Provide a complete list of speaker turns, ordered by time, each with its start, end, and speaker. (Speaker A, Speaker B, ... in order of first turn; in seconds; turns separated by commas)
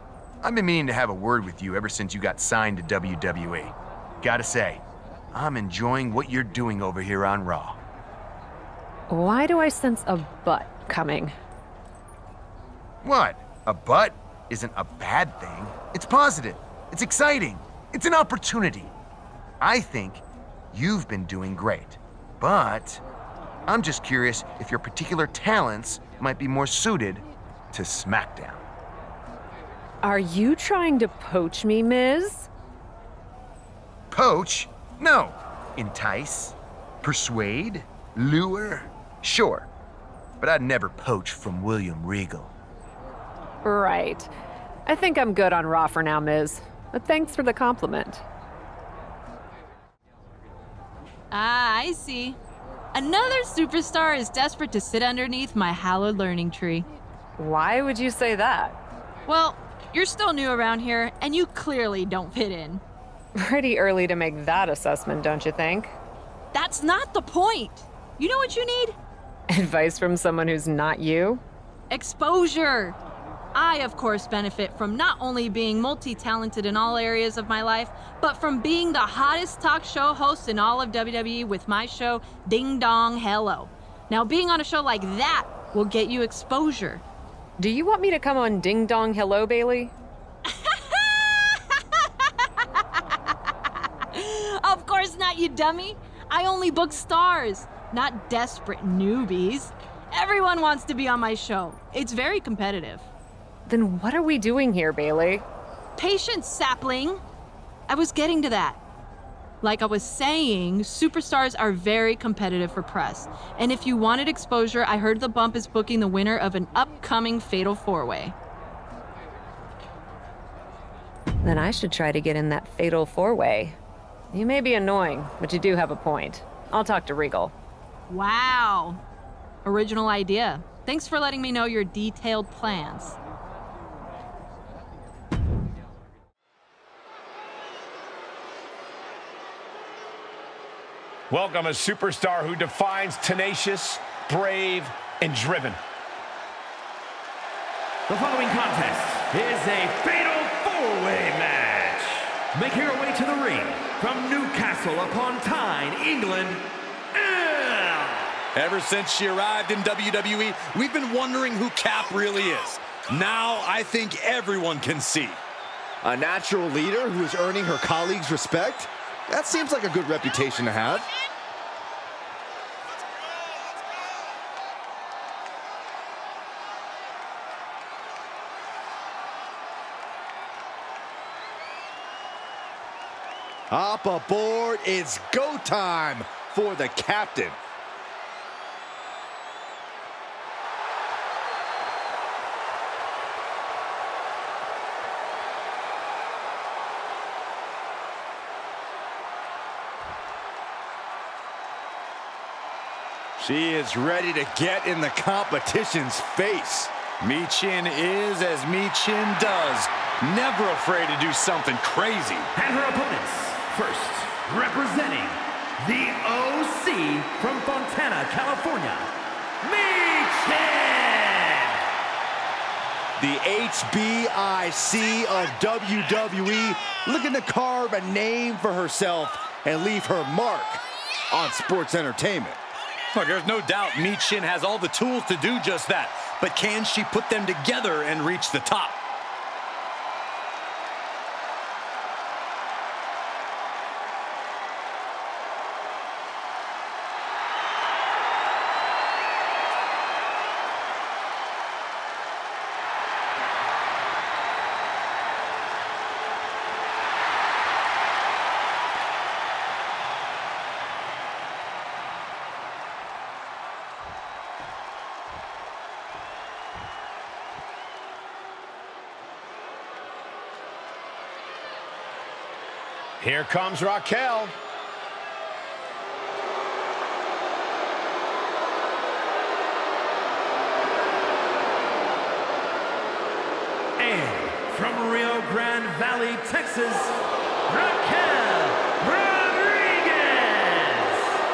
Speaker A: 0.4-7.8, Speaker B: 9.1-11.3, Speaker A: 13.0-18.9, Speaker A: 19.6-23.0, Speaker A: 23.7-28.7, Speaker B: 30.0-32.5, Speaker A: 34.1-39.7, Speaker A: 40.4-42.5, Speaker B: 43.6-44.3, Speaker B: 44.9-48.2, Speaker C: 51.3-52.4, Speaker C: 52.9-56.9, Speaker B: 57.4-58.8, Speaker C: 59.3-62.8, Speaker B: 63.4-66.0, Speaker C: 66.5-69.0, Speaker B: 69.5-71.4, Speaker C: 71.9-73.0, Speaker C: 73.5-87.0, Speaker B: 87.6-89.9, Speaker C: 90.5-92.3, Speaker C: 94.1-103.1, Speaker B: 103.7-105.5, Speaker C: 106.0-107.2, Speaker C: 107.9-108.8, Speaker C: 109.6-118.3, Speaker B: 121.4-123.8, Speaker B: 124.3-127.5, Speaker C: 128.1-129.0, Speaker C: 129.7-133.2, Speaker D: 141.3-145.8, Speaker E: 148.1-158.4, Speaker F: 158.5-165.4, Speaker G: 166.0-171.1, Speaker G: 183.7-187.6, Speaker G: 203.4-206.9, Speaker F: 207.2-212.5, Speaker E: 212.5-219.1, Speaker E: 219.6-221.8, Speaker G: 223.2-232.6, Speaker F: 233.1-239.0, Speaker D: 273.2-274.5, Speaker E: 284.0-291.3